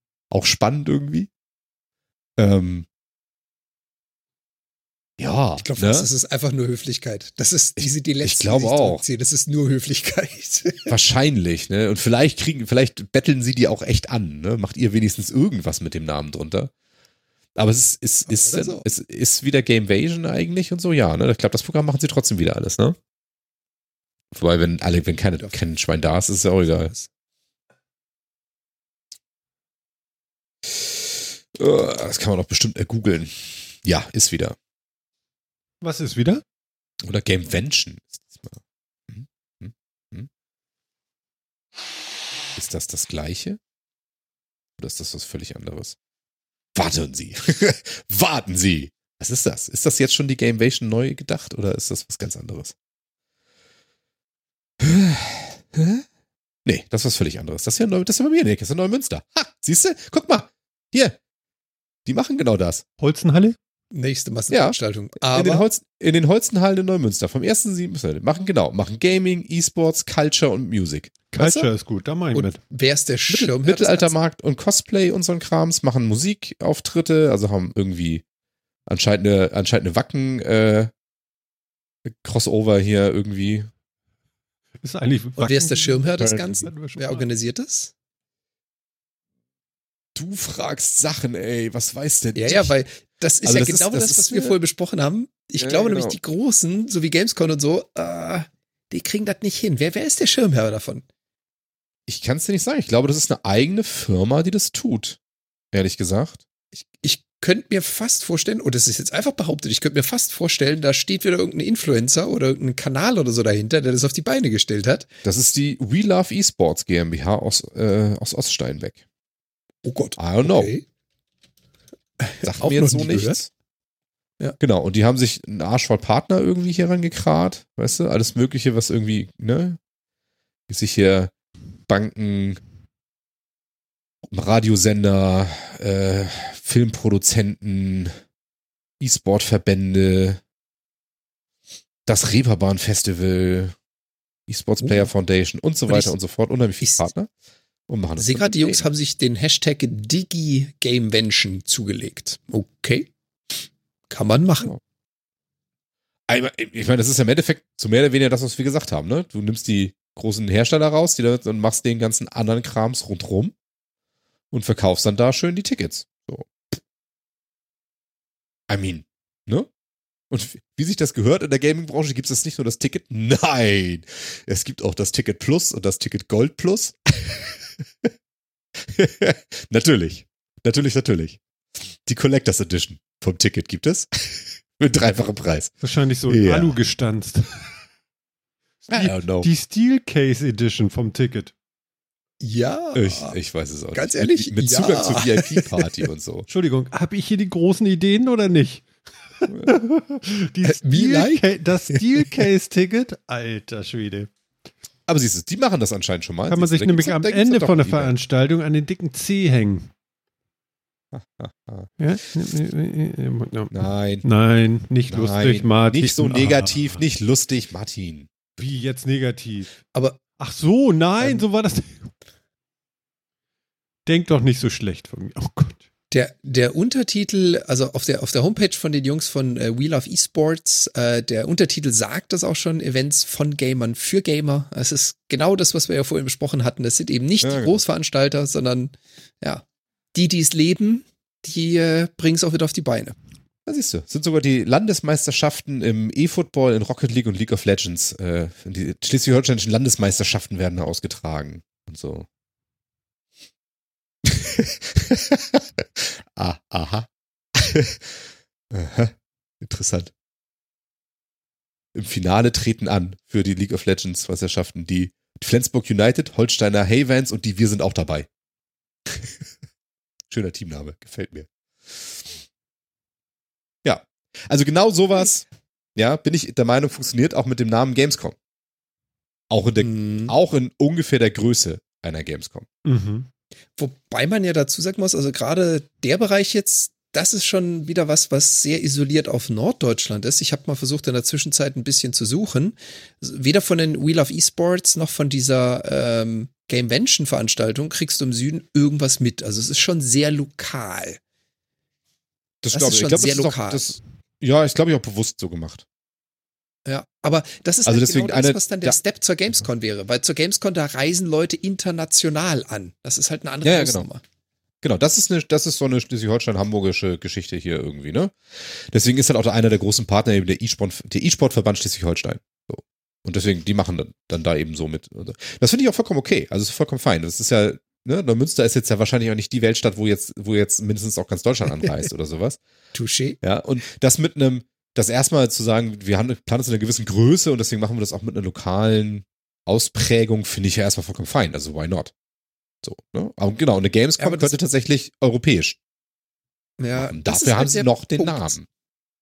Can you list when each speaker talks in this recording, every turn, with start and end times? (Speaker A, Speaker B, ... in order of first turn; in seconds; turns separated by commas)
Speaker A: 0.3-1.3, Speaker A: 2.4-2.9, Speaker A: 5.2-6.1, Speaker B: 5.6-10.9, Speaker A: 7.8-9.0, Speaker A: 10.9-16.7, Speaker A: 17.6-23.0, Speaker B: 18.3-18.9, Speaker A: 24.3-26.9, Speaker B: 26.7-27.1, Speaker A: 30.7-34.6, Speaker C: 35.8-36.4, Speaker A: 37.0-40.3, Speaker A: 42.5-43.6, Speaker A: 44.8-46.0, Speaker A: 46.8-52.8, Speaker A: 54.8-56.0, Speaker A: 56.6-61.2, Speaker A: 62.1-62.8, Speaker C: 63.0-63.6, Speaker B: 63.9-65.7, Speaker A: 64.5-71.1, Speaker C: 71.3-72.6, Speaker B: 71.4-71.7, Speaker B: 72.6-74.2, Speaker A: 73.3-78.2, Speaker A: 78.9-80.9, Speaker A: 82.0-83.7, Speaker C: 84.8-87.3, Speaker B: 85.4-87.9, Speaker A: 86.2-86.7, Speaker A: 90.2-92.7, Speaker B: 92.3-101.0, Speaker A: 93.4-94.5, Speaker A: 95.6-96.2, Speaker A: 102.1-105.2, Speaker A: 105.7-106.4, Speaker B: 106.8-115.1, Speaker A: 115.2-119.0, Speaker B: 119.8-120.8, Speaker A: 120.2-120.7, Speaker B: 122.2-123.4, Speaker A: 122.4-123.5, Speaker A: 124.6-129.8, Speaker A: 130.7-131.3, Speaker A: 131.9-132.6, Speaker A: 134.3-138.2, Speaker A: 139.0-140.4, Speaker A: 142.1-143.8, Speaker A: 144.5-147.3, Speaker B: 144.8-145.1, Speaker B: 145.9-146.1, Speaker B: 146.8-147.1, Speaker A: 147.9-148.9, Speaker B: 148.2-153.1, Speaker B: 154.1-154.8, Speaker A: 156.3-163.5, Speaker A: 164.5-166.8, Speaker A: 168.7-169.7, Speaker A: 170.3-178.1, Speaker A: 178.8-181.4, Speaker A: 182.1-185.7, Speaker C: 185.8-187.5, Speaker A: 186.3-186.7, Speaker C: 188.9-191.5, Speaker A: 188.9-189.5, Speaker B: 192.4-193.4, Speaker A: 192.9-196.5, Speaker B: 193.9-195.9, Speaker C: 196.5-198.9, Speaker C: 199.4-204.3, Speaker A: 199.5-199.8, Speaker B: 200.7-202.0, Speaker A: 205.1-208.1, Speaker C: 206.5-209.9, Speaker A: 211.1-211.9, Speaker C: 212.0-217.0, Speaker A: 213.7-214.2, Speaker A: 215.1-218.3, Speaker C: 218.6-219.7, Speaker B: 219.9-220.2, Speaker C: 220.4-222.1, Speaker B: 221.2-221.4, Speaker C: 224.1-225.8, Speaker B: 226.1-243.2, Speaker A: 237.4-237.8, Speaker A: 243.7-252.3, Speaker A: 254.2-260.1, Speaker A: 261.9-268.3, Speaker A: 270.3-272.4, Speaker A: 273.8-278.4, Speaker A: 279.5-282.7, Speaker B: 279.8-280.3, Speaker C: 282.9-283.3, Speaker B: 283.8-301.2, Speaker A: 302.6-305.9, Speaker B: 302.7-303.9, Speaker B: 306.9-314.2, Speaker A: 307.9-309.0, Speaker A: 313.6-314.1, Speaker A: 314.8-332.6, Speaker B: 332.9-333.4, Speaker A: 333.4-342.1, Speaker A: 342.8-345.8, Speaker B: 344.2-344.5, Speaker B: 346.8-348.6, Speaker A: 347.0-348.7